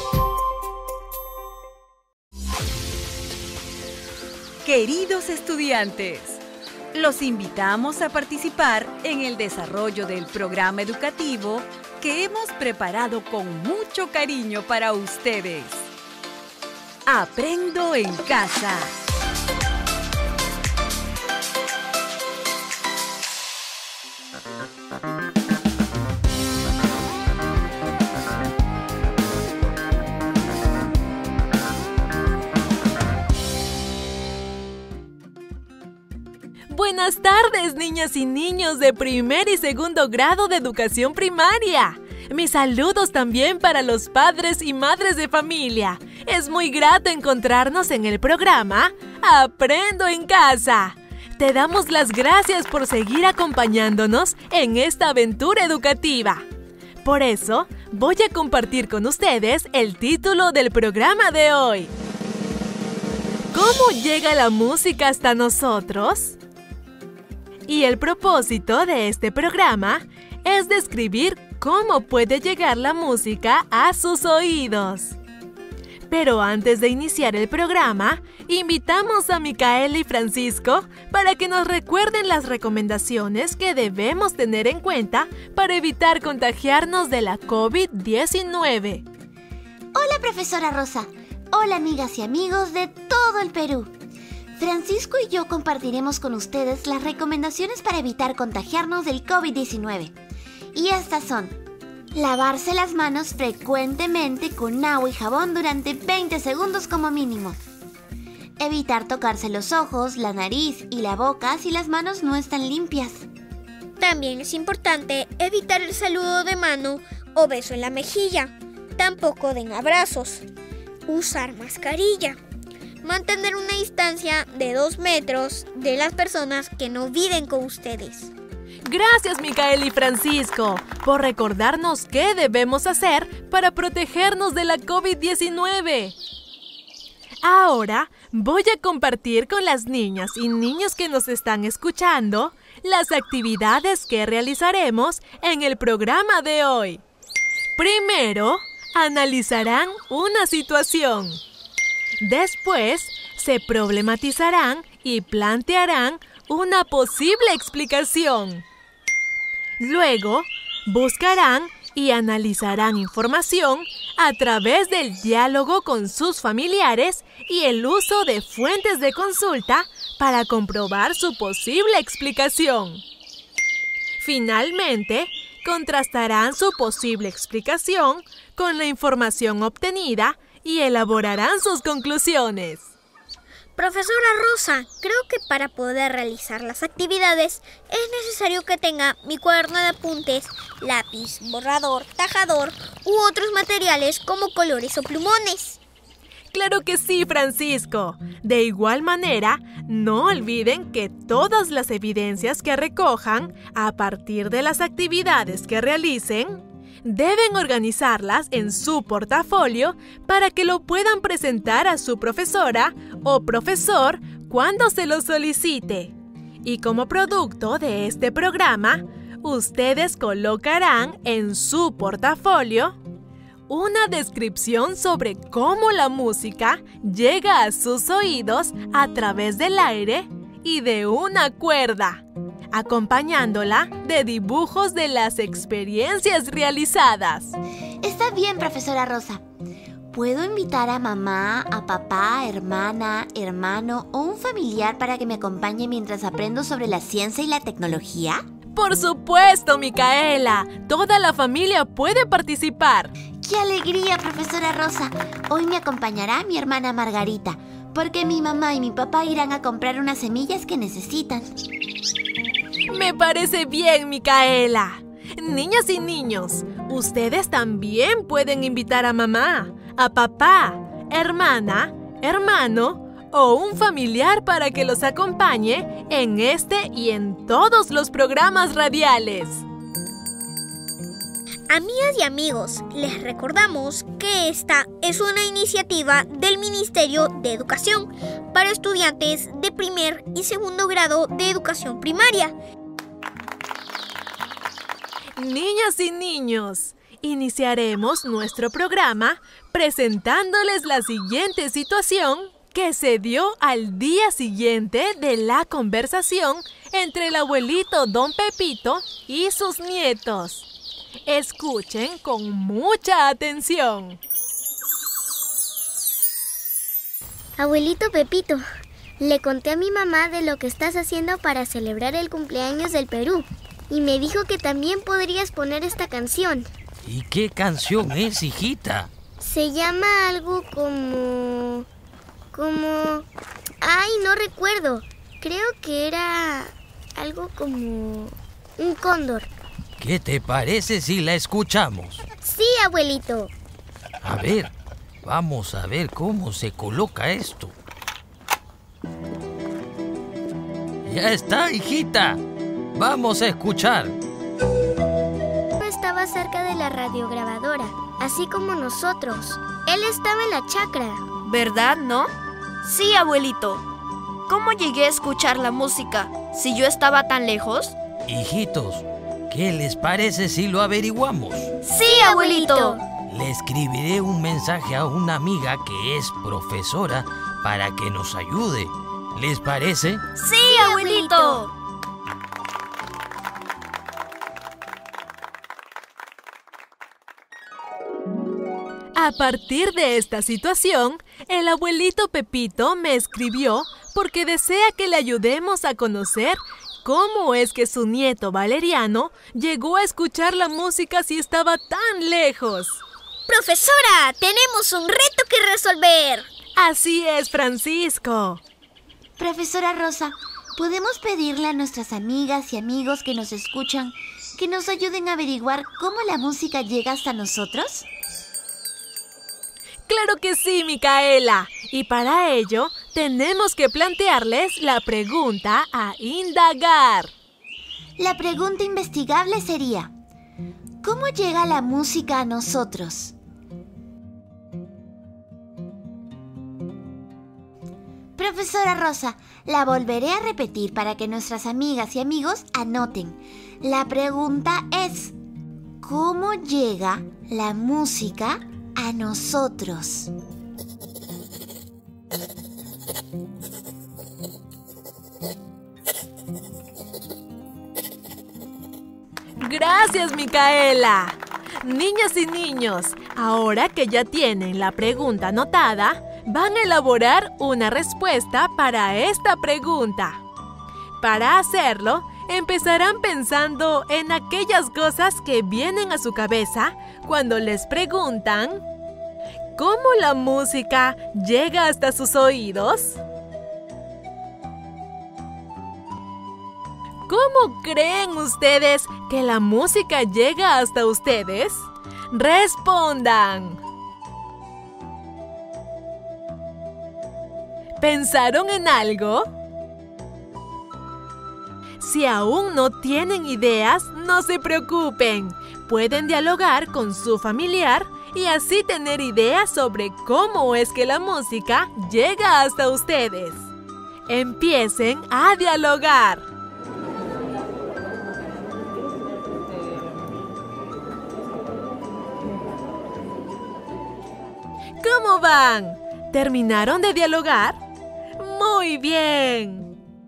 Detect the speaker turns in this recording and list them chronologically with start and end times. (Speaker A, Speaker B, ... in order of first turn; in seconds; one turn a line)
Speaker A: 4.6-6.4
Speaker A: 6.9-15.9
Speaker A: 17.1-18.9
Speaker B: 36.7-56.5
Speaker B: 57.0-61.9
Speaker B: 63.5-66.4
Speaker B: 67.7-75.2
Speaker B: 76.1-89.0
Speaker C: 90.0-93.9
Speaker C: 94.6-100.2
Speaker C: 100.7-101.6
Speaker C: 102.1-107.6
Speaker C: 108.6-113.3
Speaker D: 114.0-120.5
Speaker D: 121.1-122.4
Speaker D: 123.0-128.3
Speaker B: 128.9-136.2
Speaker B: 137.4-147.0
Speaker B: 147.8-151.4
Speaker B: 152.2-158.7
Speaker B: 159.8-173.0
Speaker B: 174.2-182.9
Speaker D: 183.8-195.8
Speaker B: 196.5-216.1
Speaker B: 216.6-223.0
Speaker B: 223.7-237.6
Speaker C: 238.0-239.4
Speaker C: 240.1-248.4
Speaker B: 248.8-253.1
Speaker C: 253.4-261.5
Speaker B: 262.9-279.6
Speaker D: 281.7-292.6
Speaker B: 295.4-310.7
Speaker B: 311.3-314.2
Speaker E: 317.6-318.6
Speaker E: 319.2-326.7
Speaker F: 327.1-329.1
Speaker E: 329.4-331.9
Speaker E: 332.5-333.3
Speaker E: 333.8-339.5
Speaker F: 340.0-342.2
Speaker E: 342.4-343.5
Speaker F: 344.2-344.7
Speaker F: 345.2-347.7
Speaker F: 351.1-352.4
Speaker F: 352.9-354.2
Speaker E: 355.8-361.2
Speaker G: 361.4-362.3
Speaker G: 362.8-363.9
Speaker G: 364.5-368.0
Speaker F: 368.3-371.7
Speaker G: 371.8-373.0
Speaker D: 372.1-372.9
Speaker F: 373.3-380.2
Speaker G: 380.4-381.7
Speaker D: 380.6-381.6
Speaker B: 389.1-403.0
Speaker D: 403.5-406.5
Speaker B: 406.8-408.6
Speaker C: 409.4-418.1
Speaker B: 420.1-427.3
Speaker C: 428.2-430.1
Speaker C: 431.0-433.4
Speaker C: 438.4-445.4
Speaker C: 446.0-450.3
Speaker B: 459.6-470.4
Speaker B: 471.2-478.8
Speaker B: 479.8-483.2
Speaker B: 487.3-493.8
Speaker B: 498.0-499.5
Speaker B: 502.0-513.7
Speaker B: 514.3-516.5
Speaker B: 525.0-527.8
Speaker B: 528.4-529.9